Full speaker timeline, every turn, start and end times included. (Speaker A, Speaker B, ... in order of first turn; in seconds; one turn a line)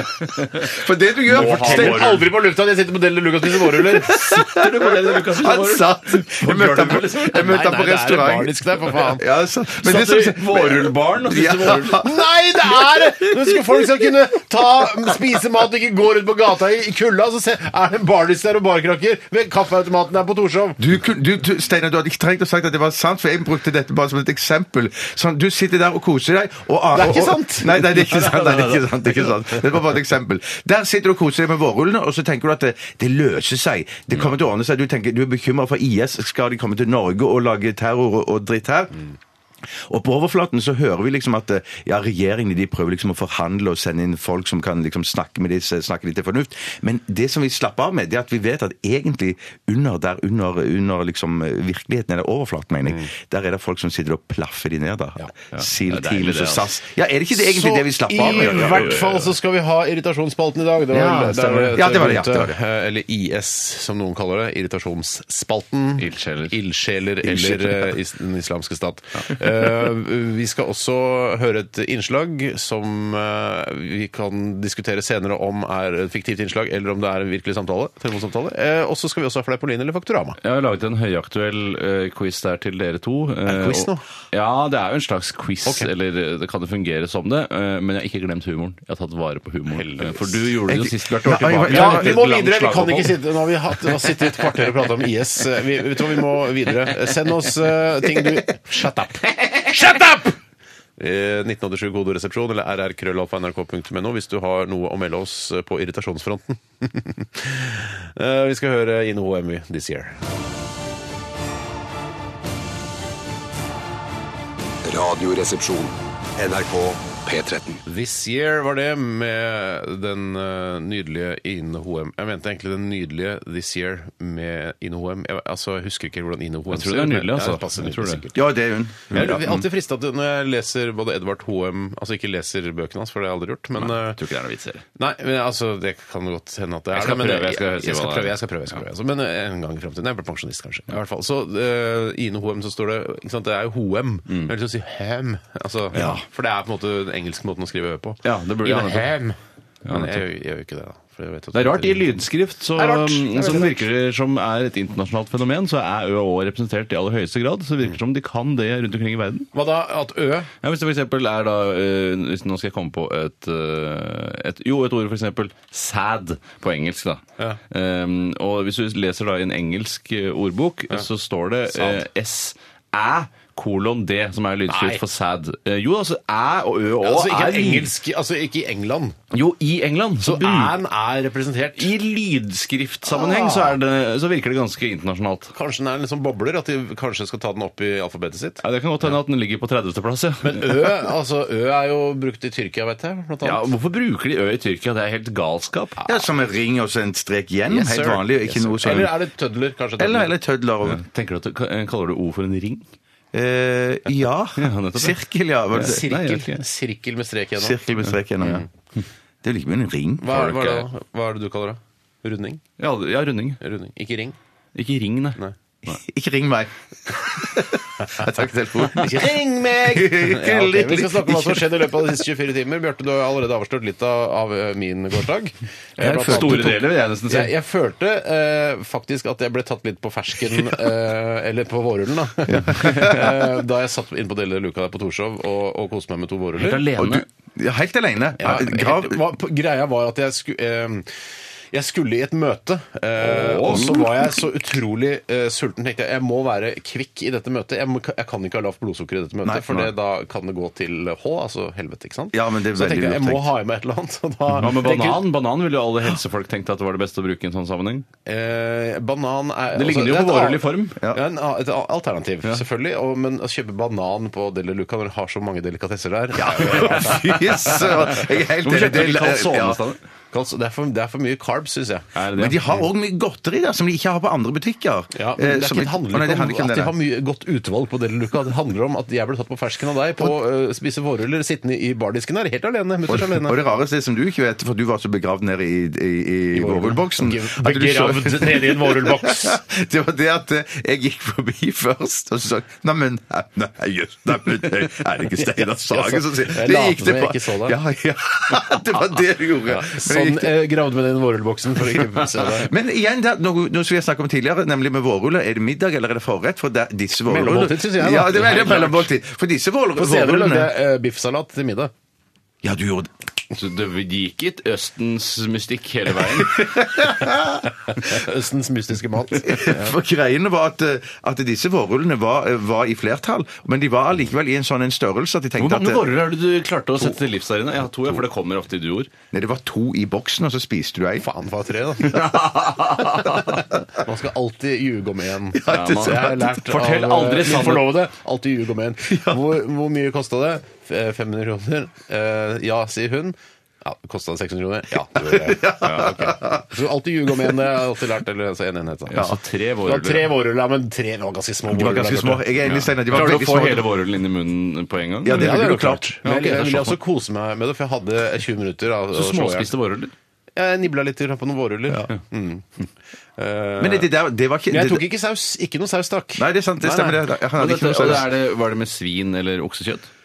Speaker A: 0.2-0.7
Speaker B: 0.6-2.1
Speaker A: 1.3-2.3
Speaker C: 1.3-4.1
Speaker B: 3.5-8.5
Speaker A: 4.3-7.6
Speaker C: 7.3-9.2
Speaker B: 9.1-12.2
Speaker A: 9.8-12.0
Speaker C: 11.9-20.8
Speaker B: 12.7-13.6
Speaker B: 20.8-39.0
Speaker C: 26.9-28.8
Speaker B: 39.9-59.0
Speaker A: 55.5-56.7
Speaker C: 57.4-80.4
Speaker A: 58.2-59.3
Speaker B: 60.9-62.6
Speaker A: 66.0-66.6
Speaker B: 67.2-67.7
Speaker A: 80.4-93.2
Speaker C: 83.5-84.0
Speaker C: 89.7-90.5
Speaker B: 90.7-92.2
Speaker C: 91.7-100.3
Speaker C: 101.0-110.2
Speaker D: 114.8-117.8
Speaker C: 117.8-128.4
Speaker A: 126.7-128.2
Speaker B: 128.3-129.7
Speaker C: 129.1-134.2
Speaker A: 133.8-134.8
Speaker C: 134.9-149.4
Speaker A: 136.9-138.3
Speaker A: 148.2-149.1
Speaker A: 149.8-150.2
Speaker C: 149.9-152.0
Speaker A: 151.5-159.5
Speaker C: 152.8-153.7
Speaker C: 159.5-160.5
Speaker A: 160.6-177.9
Speaker C: 171.7-172.0
Speaker C: 174.7-175.0
Speaker C: 177.0-179.2
Speaker A: 179.3-180.8
Speaker C: 180.2-181.9
Speaker A: 181.8-185.5
Speaker C: 183.1-183.8
Speaker C: 185.5-188.6
Speaker A: 188.6-190.9
Speaker C: 190.4-193.6
Speaker A: 193.4-196.0
Speaker C: 196.0-196.2
Speaker B: 196.1-199.1
Speaker C: 197.7-200.3
Speaker B: 200.0-201.0
Speaker A: 200.8-202.8
Speaker B: 203.3-206.1
Speaker A: 204.6-205.2
Speaker A: 205.7-206.6
Speaker C: 205.7-207.8
Speaker B: 207.6-208.6
Speaker C: 208.4-208.7
Speaker B: 209.4-210.8
Speaker C: 210.2-212.6
Speaker A: 212.8-213.6
Speaker C: 213.6-214.4
Speaker A: 214.7-215.4
Speaker B: 215.8-222.1
Speaker C: 218.8-236.8
Speaker B: 226.0-226.8
Speaker A: 226.0-227.5
Speaker B: 232.5-233.3
Speaker A: 232.8-233.2
Speaker A: 236.6-237.2
Speaker B: 236.9-239.2
Speaker C: 238.4-241.1
Speaker C: 241.7-255.2
Speaker A: 243.2-243.9
Speaker B: 243.7-244.0
Speaker B: 249.4-249.9
Speaker B: 252.3-253.5
Speaker A: 254.5-258.1
Speaker C: 258.2-267.8
Speaker A: 259.7-261.0
Speaker B: 266.3-269.8
Speaker A: 266.8-270.0
Speaker C: 270.3-272.1
Speaker A: 272.1-272.6
Speaker B: 272.4-276.9
Speaker C: 275.1-283.6
Speaker B: 283.1-300.5
Speaker C: 286.5-289.6
Speaker C: 295.4-297.8
Speaker C: 299.7-302.7
Speaker B: 302.4-310.7
Speaker C: 307.2-309.1
Speaker C: 309.9-311.9
Speaker B: 312.6-313.1
Speaker A: 313.5-316.6
Speaker B: 316.2-317.7
Speaker C: 317.9-319.9
Speaker B: 319.4-326.1
Speaker A: 325.6-329.1
Speaker B: 329.3-331.3
Speaker C: 331.2-332.3
Speaker A: 332.1-333.6
Speaker C: 333.9-349.2
Speaker B: 335.5-336.4
Speaker A: 335.7-337.9
Speaker B: 339.1-339.4
Speaker B: 345.2-346.7
Speaker A: 345.8-346.1
Speaker A: 349.1-350.3
Speaker C: 349.8-352.5
Speaker B: 351.7-353.9
Speaker A: 352.6-355.7
Speaker B: 355.2-356.2
Speaker C: 355.3-359.7
Speaker A: 356.2-357.0
Speaker A: 359.1-360.1
Speaker C: 360.6-362.8
Speaker C: 363.4-364.1
Speaker B: 363.8-365.0
Speaker C: 364.7-367.2
Speaker B: 366.4-368.3
Speaker A: 367.6-370.1